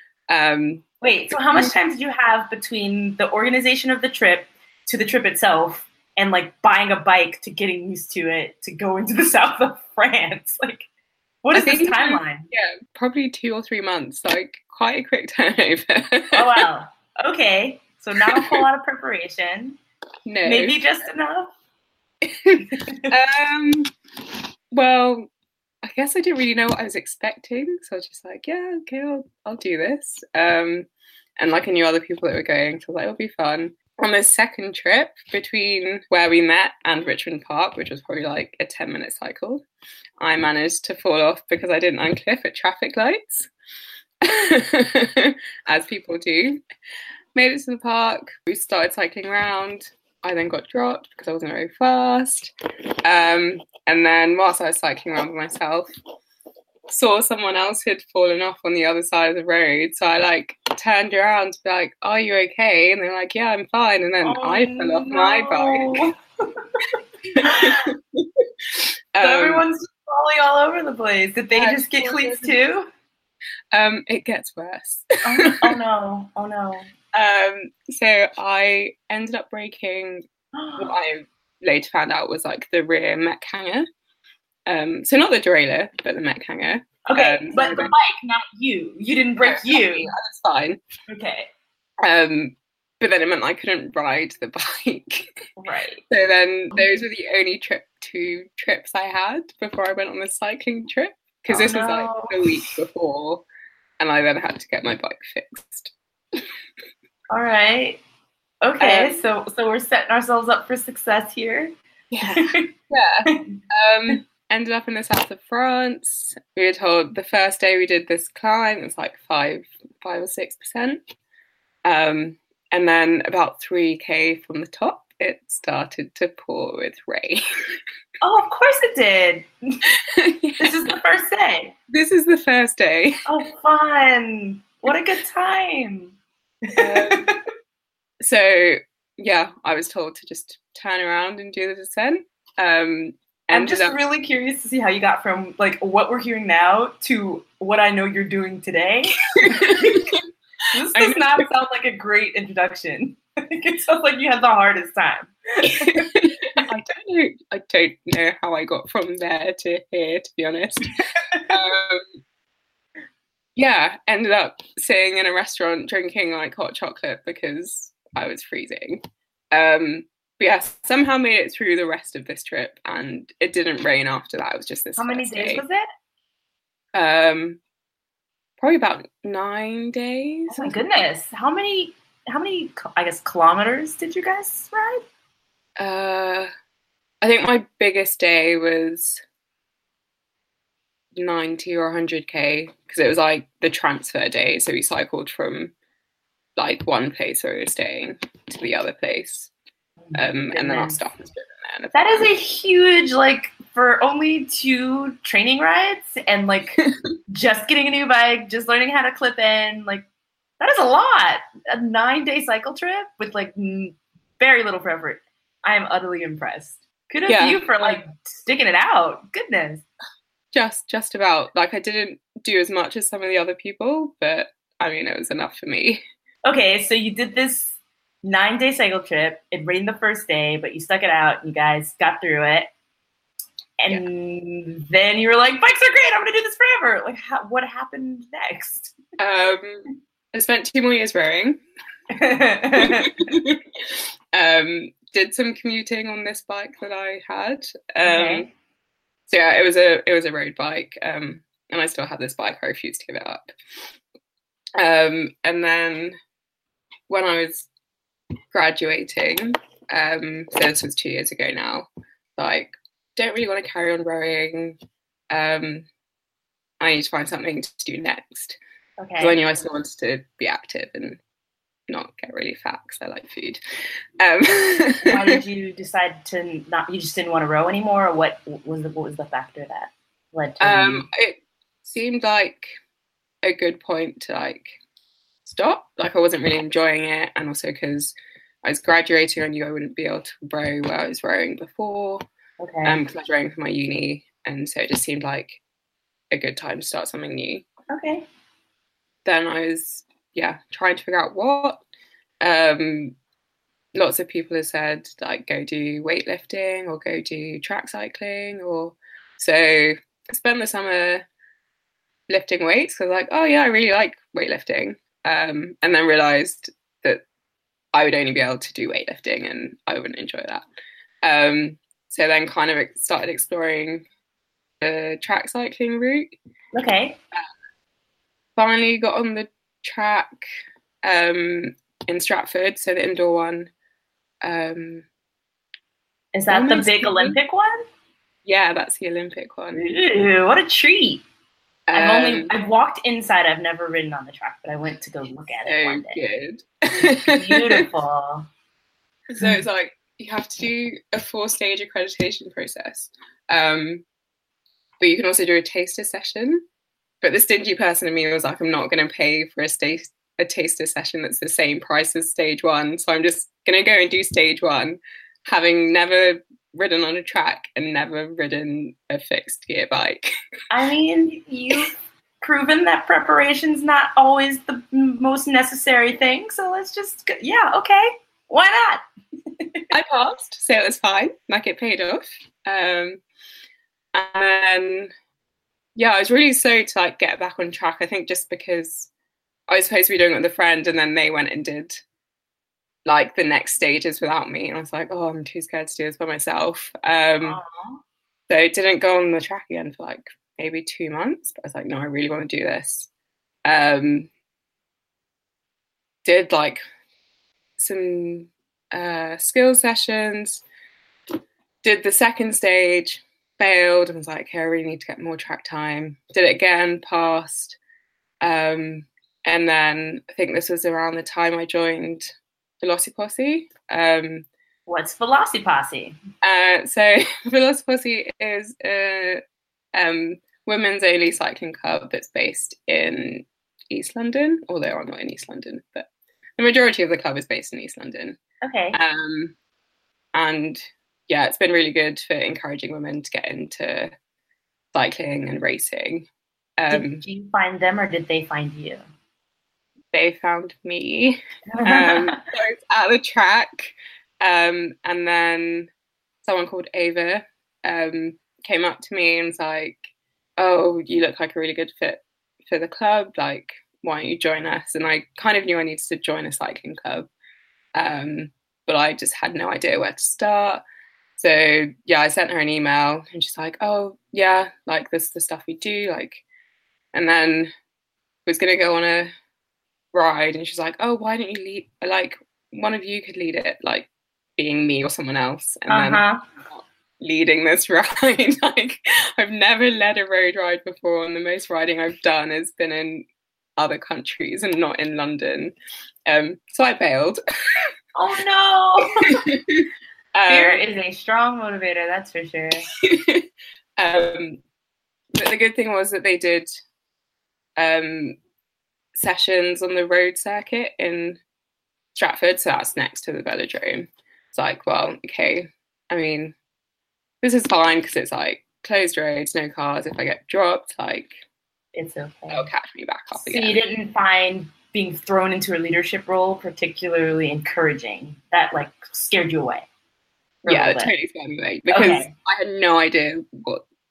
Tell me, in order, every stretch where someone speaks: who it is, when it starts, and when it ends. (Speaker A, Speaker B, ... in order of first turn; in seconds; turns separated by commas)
Speaker A: 0.3-1.7, Speaker B: 1.0-10.9, Speaker B: 11.4-12.5, Speaker A: 11.5-16.7, Speaker B: 16.3-19.8, Speaker A: 18.3-18.6, Speaker A: 20.3-20.8, Speaker B: 20.4-21.5, Speaker A: 22.3-23.9, Speaker B: 22.6-23.1, Speaker A: 24.7-25.3, Speaker A: 25.8-39.6, Speaker A: 40.2-43.5, Speaker A: 44.2-46.6, Speaker A: 47.4-52.5, Speaker A: 53.0-55.9, Speaker A: 56.9-66.1, Speaker B: 64.2-66.7, Speaker A: 67.3-69.6, Speaker B: 67.4-67.9, Speaker B: 69.2-72.9, Speaker A: 71.5-72.6, Speaker A: 73.7-75.8, Speaker B: 75.2-76.9, Speaker A: 77.1-80.2, Speaker B: 80.5-81.0, Speaker A: 80.8-83.9, Speaker A: 84.7-87.9, Speaker B: 87.1-90.1, Speaker A: 89.4-90.8, Speaker B: 91.1-91.5, Speaker A: 92.0-95.3, Speaker B: 95.6-96.0, Speaker A: 96.1-103.4, Speaker B: 101.5-102.7, Speaker A: 104.0-106.4, Speaker B: 107.3-108.0, Speaker B: 108.6-111.8, Speaker A: 108.8-109.2, Speaker A: 112.1-121.0, Speaker B: 112.3-112.6, Speaker B: 113.3-113.5, Speaker A: 121.8-127.4, Speaker B: 128.2-129.8, Speaker A: 130.1-130.8, Speaker B: 130.6-131.7, Speaker A: 131.9-133.2, Speaker B: 133.3-136.2, Speaker B: 136.7-137.4, Speaker A: 136.8-137.3, Speaker A: 138.2-144.0, Speaker B: 143.5-150.1, Speaker A: 149.5-150.2, Speaker B: 150.7-156.0, Speaker A: 150.9-151.4, Speaker A: 155.7-162.1, Speaker A: 163.6-175.6, Speaker B: 175.0-175.9, Speaker A: 176.9-177.6, Speaker A: 178.6-180.8, Speaker B: 180.5-185.0, Speaker A: 185.8-186.5, Speaker A: 187.2-189.2, Speaker A: 191.2-195.7, Speaker A: 196.6-199.5, Speaker B: 200.1-201.1, Speaker A: 200.1-202.3, Speaker B: 201.9-210.1, Speaker B: 210.6-219.8, Speaker A: 217.3-218.0, Speaker A: 220.5-226.0, Speaker B: 226.5-232.7, Speaker B: 233.8-238.9, Speaker A: 239.2-241.6, Speaker B: 242.1-243.2, Speaker A: 242.8-248.5, Speaker B: 248.0-248.5, Speaker A: 249.3-253.5, Speaker A: 254.8-256.1, Speaker A: 257.1-257.7, Speaker A: 258.5-264.8, Speaker A: 265.3-265.9, Speaker A: 266.8-268.6, Speaker B: 269.0-269.4, Speaker A: 269.2-271.2, Speaker A: 271.9-273.6, Speaker A: 274.2-275.4, Speaker B: 275.1-281.1, Speaker A: 280.6-282.7, Speaker A: 283.4-284.7, Speaker A: 285.4-292.2, Speaker B: 292.6-293.0, Speaker A: 292.8-295.6, Speaker A: 296.3-297.6, Speaker B: 297.9-298.2, Speaker A: 299.2-301.8, Speaker A: 302.4-303.1, Speaker A: 303.9-311.3, Speaker A: 312.3-317.2, Speaker A: 317.9-320.6, Speaker A: 321.2-324.1, Speaker A: 324.8-326.3, Speaker B: 326.7-327.2, Speaker A: 328.6-330.4, Speaker A: 331.0-333.7, Speaker A: 334.4-335.1, Speaker B: 336.3-337.8, Speaker A: 336.5-337.4, Speaker A: 338.5-339.8, Speaker B: 339.8-341.2, Speaker A: 341.9-342.5, Speaker B: 341.9-346.2, Speaker A: 345.6-347.9, Speaker B: 347.0-348.5, Speaker A: 349.3-354.0, Speaker A: 355.0-356.6, Speaker A: 357.2-370.3, Speaker B: 370.7-379.0, Speaker B: 379.6-379.9, Speaker A: 379.9-383.2, Speaker A: 384.1-385.1, Speaker A: 386.0-389.1, Speaker A: 389.7-392.0, Speaker A: 393.1-397.6, Speaker B: 397.4-398.0, Speaker A: 398.5-403.1, Speaker A: 403.7-404.3, Speaker A: 406.2-406.8, Speaker A: 407.8-410.6, Speaker A: 411.8-417.8, Speaker A: 418.4-424.5, Speaker B: 424.9-426.2, Speaker A: 426.4-429.4, Speaker A: 429.9-438.4, Speaker B: 438.6-439.0, Speaker A: 438.9-439.5, Speaker A: 440.4-444.1, Speaker A: 444.9-446.3, Speaker A: 446.8-447.2, Speaker B: 446.9-449.0, Speaker A: 450.1-455.9, Speaker B: 451.7-452.4, Speaker A: 456.4-460.0, Speaker A: 460.6-467.3, Speaker A: 468.0-470.8, Speaker A: 471.4-476.4, Speaker A: 477.1-477.7, Speaker A: 478.5-479.3, Speaker A: 480.1-493.3, Speaker B: 485.9-486.4, Speaker A: 493.8-495.7, Speaker A: 496.3-497.4, Speaker B: 498.1-499.4, Speaker A: 499.3-500.8, Speaker B: 500.5-502.9, Speaker A: 503.0-503.5, Speaker A: 504.0-504.6, Speaker A: 505.4-506.7, Speaker A: 507.8-508.4, Speaker A: 509.2-511.4, Speaker A: 512.1-516.6, Speaker A: 517.4-521.4, Speaker B: 522.0-522.7, Speaker A: 522.5-523.8, Speaker B: 523.4-529.9, Speaker B: 530.6-531.1, Speaker A: 530.7-533.8, Speaker B: 531.9-532.3